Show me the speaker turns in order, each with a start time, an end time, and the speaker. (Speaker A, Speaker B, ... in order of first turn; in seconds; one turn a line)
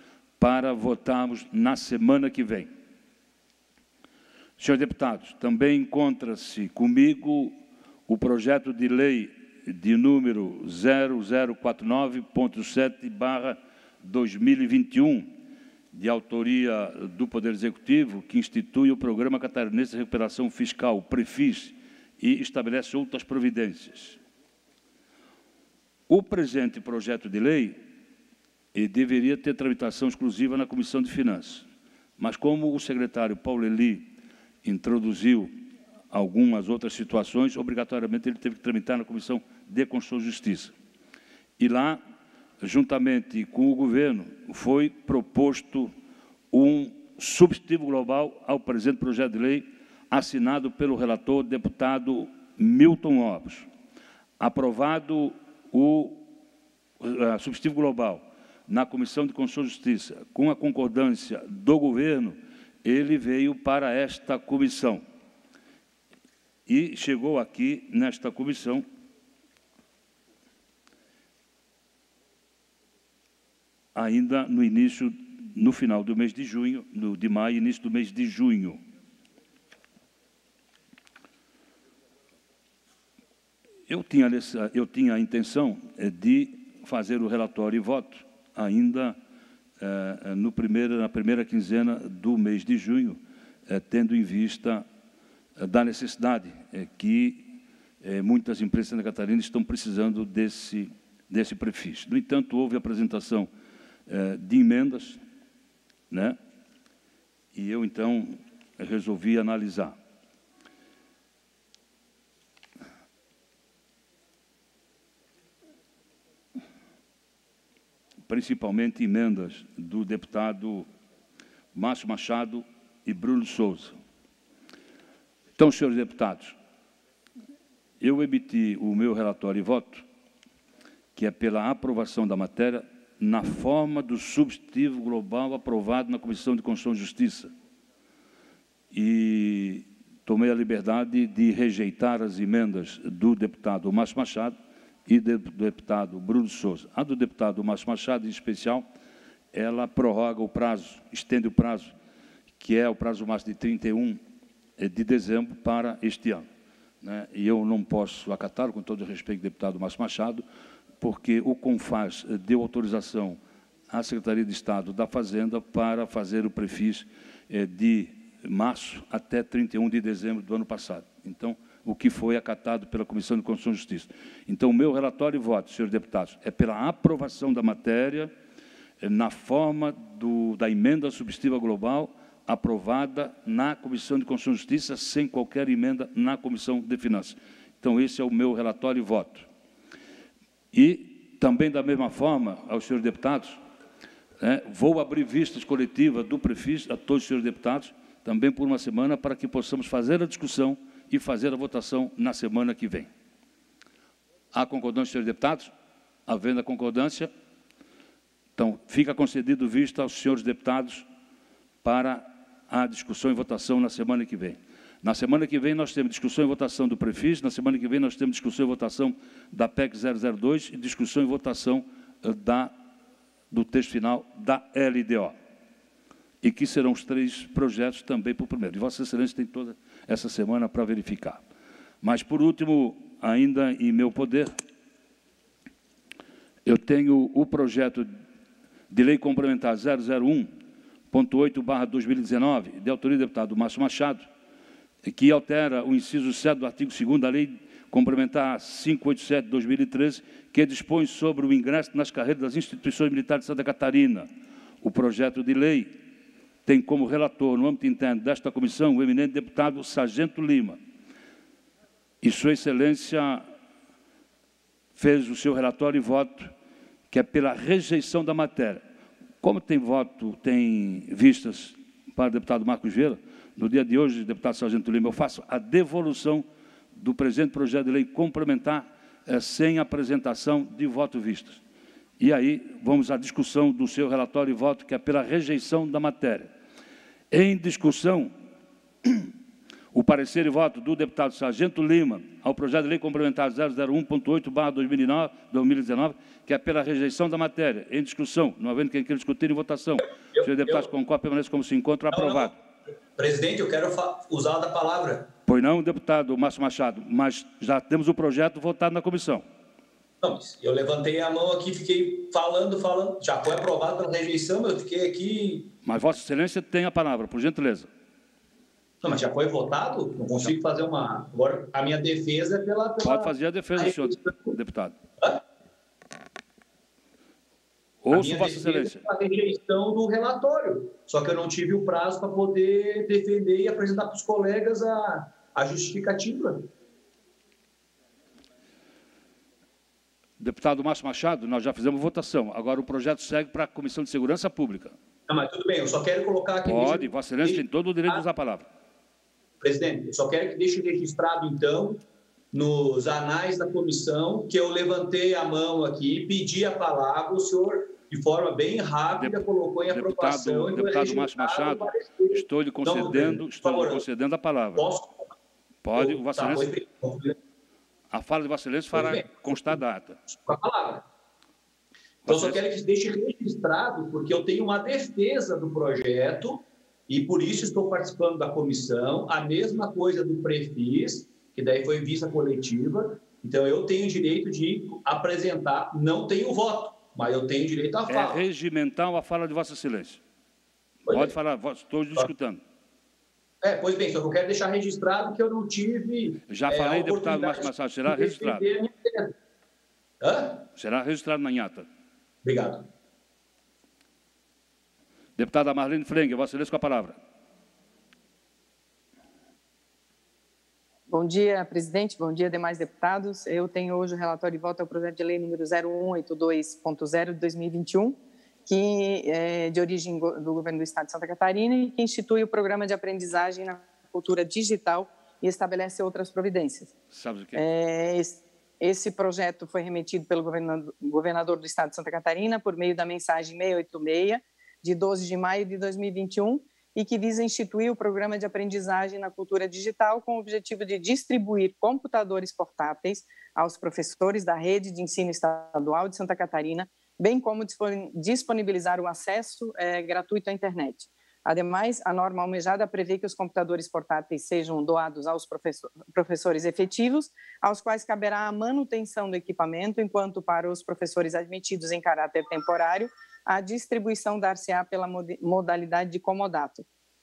Speaker A: 0.4-2.7
Speaker A: 4.6-7.6
Speaker A: 8.1-15.3
Speaker A: 15.9-24.2
Speaker A: 26.1-27.8
Speaker A: 28.7-31.6
Speaker A: 32.2-34.1
Speaker A: 34.6-35.5
Speaker A: 36.1-40.7
Speaker A: 41.6-42.0
Speaker A: 42.6-45.9
Speaker A: 46.5-53.7
Speaker A: 54.4-56.3
Speaker A: 57.0-65.0
Speaker A: 66.7-68.8
Speaker A: 73.9-78.8
Speaker A: 83.9-89.2
Speaker A: 89.8-94.8
Speaker A: 95.6-103.5
Speaker A: 104.1-105.2
Speaker A: 106.1-106.4
Speaker A: 107.5-110.0
Speaker A: 118.3-120.9
Speaker A: 121.7-124.0
Speaker A: 125.6-126.6
Speaker A: 128.0-130.0
Speaker A: 131.2-137.5
Speaker A: 138.9-148.8
Speaker A: 149.5-151.9
Speaker A: 152.6-154.2
Speaker A: 154.8-156.5
Speaker A: 157.0-160.4
Speaker A: 161.0-163.4
Speaker A: 163.9-178.3
Speaker A: 179.0-189.5
Speaker A: 190.7-193.6
Speaker A: 194.4-203.1
Speaker A: 204.5-205.7
Speaker A: 206.3-207.3
Speaker A: 208.6-211.1
Speaker A: 211.8-222.8
Speaker A: 223.5-225.3
Speaker A: 226.4-231.4
Speaker A: 232.0-234.6
Speaker A: 236.7-238.1
Speaker A: 238.9-240.5
Speaker A: 241.1-244.3
Speaker A: 245.1-254.3
Speaker A: 254.8-255.9
Speaker A: 256.6-260.8
Speaker A: 262.2-263.4
Speaker A: 265.0-266.5
Speaker A: 267.1-268.8
Speaker A: 269.4-281.6
Speaker A: 282.2-286.5
Speaker A: 287.3-288.3
Speaker A: 289.0-289.3
Speaker A: 289.9-302.5
Speaker B: 300.4-300.9
Speaker B: 302.1-302.5
Speaker B: 303.2-305.3
Speaker A: 305.5-309.4
Speaker B: 310.2-315.7
Speaker A: 315.8-317.9
Speaker B: 319.0-324.6
Speaker A: 323.0-325.0
Speaker A: 328.0-329.0
Speaker B: 328.1-336.7
Speaker A: 340.4-344.9
Speaker B: 345.3-348.2
Speaker A: 346.6-348.7
Speaker B: 349.6-352.0
Speaker B: 352.5-364.0
Speaker A: 359.2-364.9
Speaker B: 364.8-365.2
Speaker A: 365.8-366.7
Speaker B: 366.0-367.4
Speaker A: 368.1-370.2
Speaker B: 368.9-369.8
Speaker B: 370.3-371.0
Speaker A: 372.2-372.6
Speaker B: 372.3-388.4
Speaker A: 388.1-390.2
Speaker A: 391.1-392.6
Speaker B: 393.6-399.3
Speaker A: 396.5-398.7
Speaker B: 400.2-400.6
Speaker A: 400.8-401.9
Speaker B: 402.4-402.9
Speaker A: 405.4-407.2
Speaker C: 411.1-426.9
Speaker A: 427.1-427.6
Speaker C: 427.5-466.9